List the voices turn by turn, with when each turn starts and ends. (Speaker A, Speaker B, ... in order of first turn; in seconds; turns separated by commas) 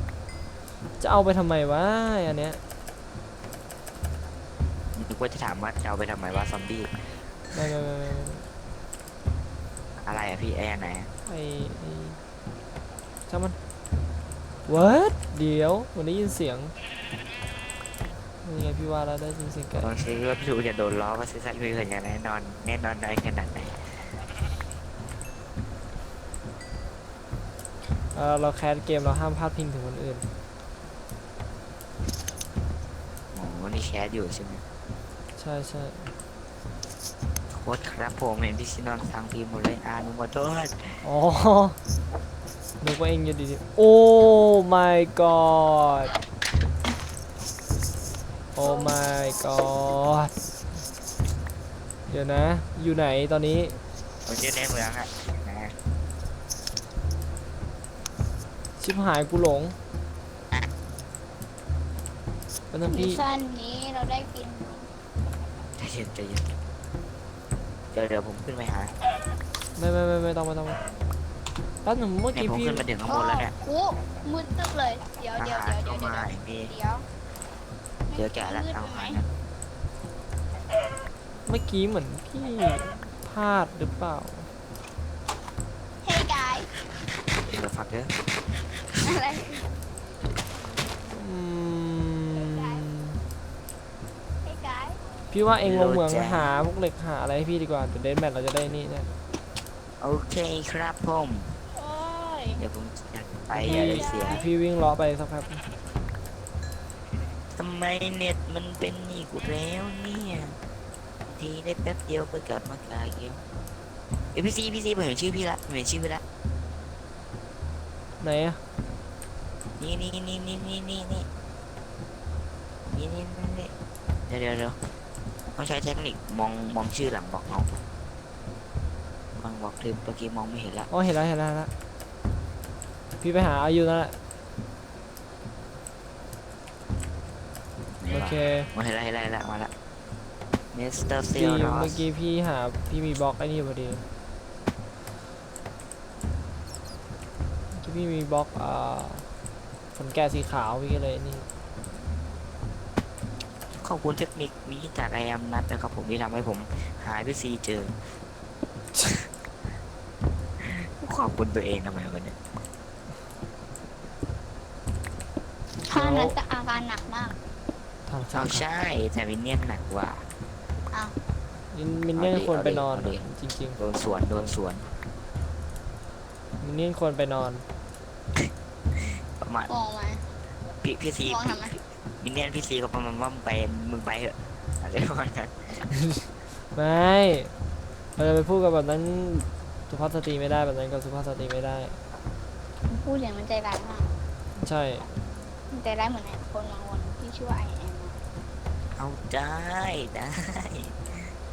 Speaker A: 1.0-2.6, Speaker B: 4.9-7.2, Speaker A: 7.5-8.5, Speaker B: 10.0-11.1, Speaker A: 11.2-12.2, Speaker A: 13.3-13.6, Speaker A: 14.7-16.7, Speaker A: 18.4-19.9, Speaker B: 19.8-24.1, Speaker A: 28.1-30.2, Speaker B: 33.3-34.6, Speaker A: 35.4-36.1, Speaker B: 37.5-41.1, Speaker A: 41.0-41.8, Speaker A: 42.8-46.1, Speaker A: 48.5-50.3, Speaker A: 52.1-53.8, Speaker B: 54.2-55.8, Speaker A: 58.8-59.8, Speaker A: 62.7-63.2, Speaker C: 62.9-64.9, Speaker B: 65.8-66.5, Speaker B: 67.9-68.9, Speaker A: 69.8-70.8, Speaker A: 71.8-72.8, Speaker B: 72.3-73.5, Speaker C: 73.0-77.1, Speaker B: 75.4-76.7, Speaker C: 78.1-79.2, Speaker B: 78.1-79.3, Speaker A: 81.5-84.5, Speaker C: 86.0-86.8, Speaker B: 87.5-88.1, Speaker C: 89.0-89.7, Speaker A: 91.0-93.2, Speaker C: 92.3-92.8, Speaker C: 94.4-95.2, Speaker A: 95.3-99.1, Speaker B: 95.6-96.5, Speaker B: 100.0-101.6, Speaker C: 101.7-102.6, Speaker B: 102.6-104.4, Speaker A: 103.5-105.7, Speaker C: 103.6-104.5, Speaker B: 107.5-110.6, Speaker B: 111.3-113.4, Speaker B: 114.3-116.2, Speaker A: 118.2-118.6, Speaker B: 119.8-121.3, Speaker B: 122.9-123.7, Speaker B: 124.3-124.8, Speaker B: 125.5-127.8, Speaker B: 129.3-130.9, Speaker A: 130.9-131.7, Speaker A: 133.2-134.2, Speaker B: 137.9-139.7, Speaker A: 138.1-138.7, Speaker B: 140.7-142.1, Speaker A: 141.3-144.0, Speaker A: 147.7-149.3, Speaker A: 149.9-151.4, Speaker B: 153.7-158.2, Speaker B: 160.6-162.3, Speaker C: 165.8-167.4, Speaker A: 165.8-166.3, Speaker A: 168.1-168.6, Speaker B: 168.3-170.2, Speaker C: 170.9-171.2, Speaker A: 171.7-173.8, Speaker B: 172.1-173.2, Speaker B: 173.8-174.9, Speaker A: 176.6-177.6, Speaker B: 178.3-179.7, Speaker C: 179.7-180.3, Speaker B: 180.8-185.9, Speaker C: 181.2-181.8, Speaker A: 186.1-187.5, Speaker A: 188.2-192.0, Speaker C: 192.8-194.1, Speaker A: 194.6-195.1, Speaker C: 195.7-198.2, Speaker B: 198.9-201.3